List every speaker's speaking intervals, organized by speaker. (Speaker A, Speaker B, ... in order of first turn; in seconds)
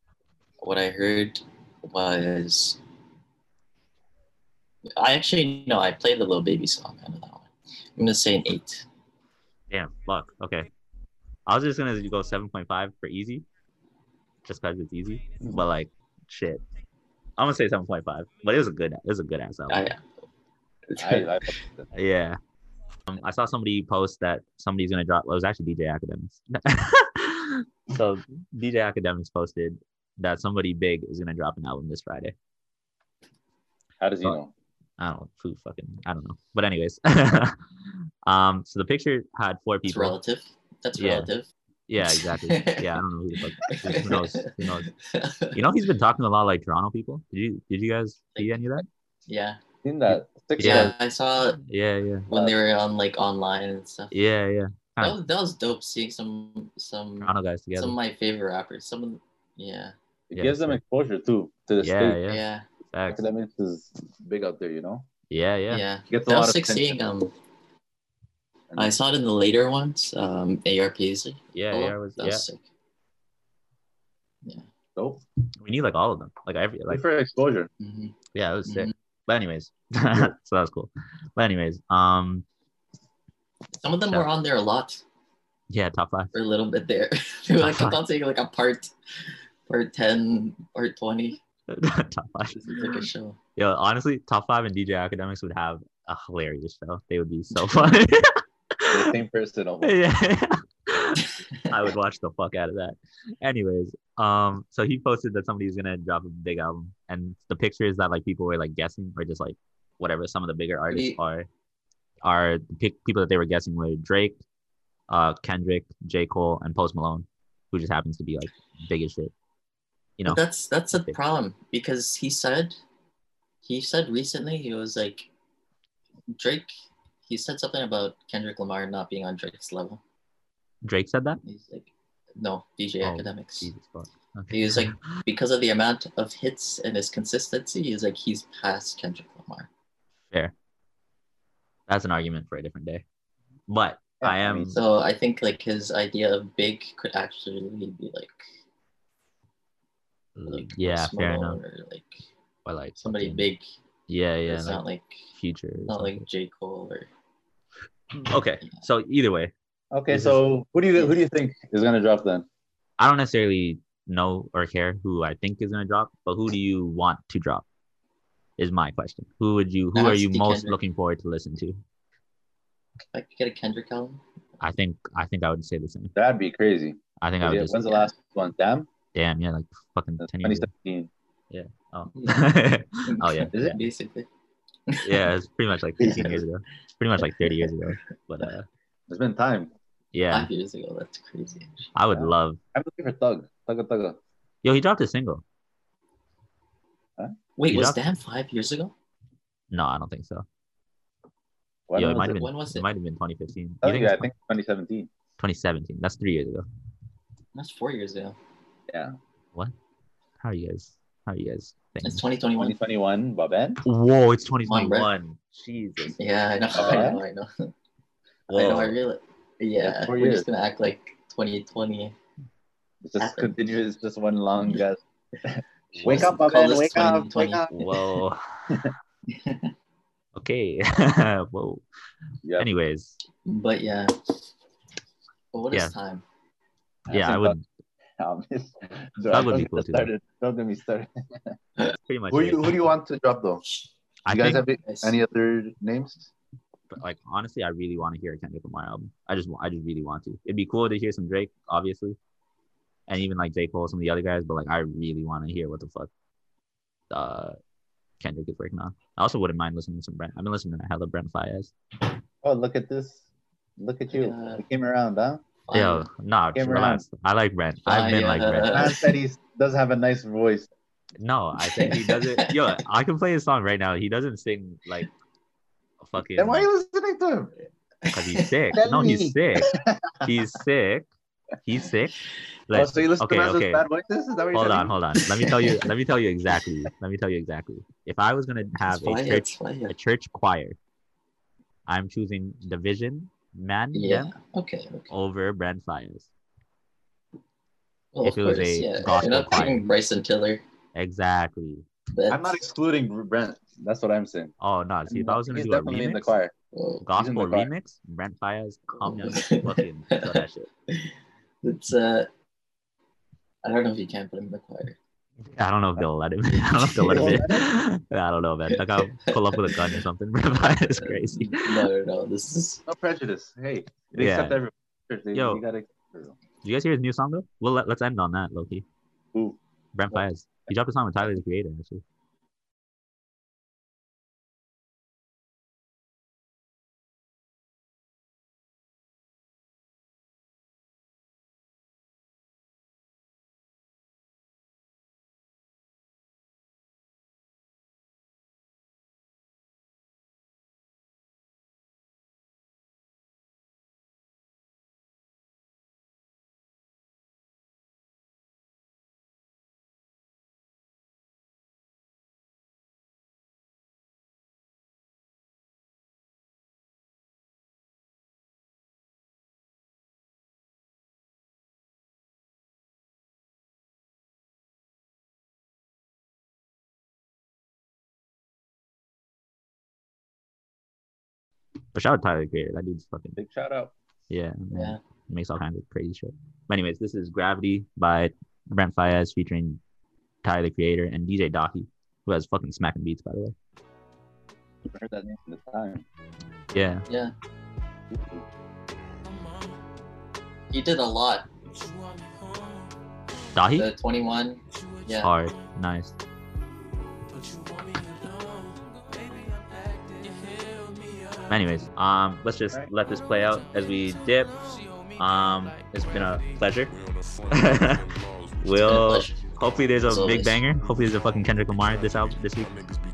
Speaker A: 0.6-2.8, 5.0-8.8, 19.7-20.0, 20.9-21.6, 39.9-43.0, 43.7-45.6, 48.3-49.6, 50.6-51.6, 52.3-54.2, 55.0-59.9, 62.3-62.6, 65.7-67.3, 68.8-72.6, 77.8-78.9, 83.8-85.0, 86.3-88.9, 89.7-91.4, 92.5-93.4, 97.5-97.9, 101.2-101.9, 110.9-111.2, 120.2-122.8, 123.6-125.3, 126.3-126.7, 127.2-130.0, 131.4-133.7, 134.5-139.7, 144.7-148.5, 150.5-152.3, 152.9-153.7, 154.5-155.2, 155.8-157.1, 169.9-170.8, 173.1-174.2, 182.2-182.5, 183.1-184.3, 184.9-185.3, 186.0-186.4, 187.2-187.7, 190.3-191.9, 197.6-198.9, 202.3-202.9, 207.5-208.4, 212.0-212.8, 214.7-215.1, 216.2-217.7, 218.5-222.1, 223.2-223.5, 226.0-227.9, 229.3-229.7, 233.4-234.1, 235.5-236.2, 244.8-245.2, 264.1-264.6, 265.7-266.1, 267.8-269.1, 271.6-272.8, 278.1-278.5, 285.4-285.8, 288.9-289.9, 293.9-295.1, 298.1-300.6, 302.1-302.6, 306.7-307.0, 308.9-311.1, 311.6-312.3, 313.6-315.0, 316.5-317.5, 318.7-319.9, 320.6-322.8, 384.7-385.0, 397.1-397.3, 400.7-401.5, 403.7-405.3, 418.8-419.4, 420.0-420.6
Speaker B: 9.7-10.7, 11.4-13.4, 14.4-16.6, 17.4-19.9, 21.9-22.4, 23.1-32.3, 35.0-37.6, 38.2-40.2, 41.0-41.3, 41.9-44.9, 45.5-48.9, 50.6-52.2, 54.1-55.2, 57.2-58.0, 60.4-60.8, 61.8-63.2, 65.3-65.8, 71.5-72.5, 75.6-77.0, 78.3-82.4, 85.7-86.3, 87.6-88.0, 91.7-99.1, 99.8-111.5, 112.2-114.4, 115.1-119.3, 130.8-131.4, 133.0-135.2, 141.9-143.0, 143.7-144.8, 150.3-151.6, 152.7-153.4, 154.1-154.8, 155.3-156.2, 158.2-159.5, 160.1-160.4, 163.0-167.6, 168.6-171.8, 174.6-176.1, 177.2-177.8, 179.1-180.7, 181.5-183.7, 185.0-188.7, 190.1-190.5, 191.9-192.6, 194.6-195.4, 197.7-198.0, 199.7-200.4, 201.9-204.3, 205.4-206.6, 210.4-212.2, 213.8-216.2, 218.5-219.0, 225.9-226.3, 227.7-228.4, 230.3-231.8, 232.6-233.2, 237.1-237.7, 239.3-240.1, 241.8-242.8, 244.2-244.6, 246.9-252.2, 253.1-256.1, 257.1-257.6, 258.2-261.7, 265.7-268.9, 271.2-275.1, 276.0-276.7, 278.1-279.7, 280.2-281.1, 281.6-282.1, 282.7-283.8, 284.5-290.8, 291.9-294.3, 295.1-296.3, 298.2-299.9, 300.9-301.9, 304.6-306.3, 307.1-310.7, 315.5-321.9, 324.1-324.6, 325.3-325.6, 326.6-328.8, 329.9-332.0, 381.9-383.4, 384.3-389.8, 390.4-393.5, 396.7-397.0, 403.5-403.9, 405.1-406.1, 411.4-414.6, 415.1-417.0, 417.5-422.8
Speaker C: 21.0-21.9, 34.0-34.5, 49.8-50.9, 52.3-52.6, 60.3-62.2, 63.1-65.1, 66.1-67.0, 68.7-69.0, 75.0-75.2, 76.9-77.7, 98.9-100.0, 144.2-144.8, 159.9-162.4, 176.2-178.9, 180.2-181.1, 183.5-183.8, 189.1-189.7, 192.1-194.2, 201.9-202.3, 203.8-205.1, 208.9-209.2, 212.6-213.8, 216.7-217.2, 219.8-220.4, 223.0-227.8, 237.1-237.6, 238.2-241.1, 242.3-243.6, 244.3-246.3, 262.4-263.2, 263.8-265.4, 266.5-267.0, 268.7-270.7, 276.4-277.5, 278.7-280.3, 282.7-284.9, 302.3-304.5, 305.1-306.5, 307.1-307.7, 317.1-317.7, 322.9-326.4, 329.3-329.6, 383.4-383.9, 394.9-396.1, 398.1-398.4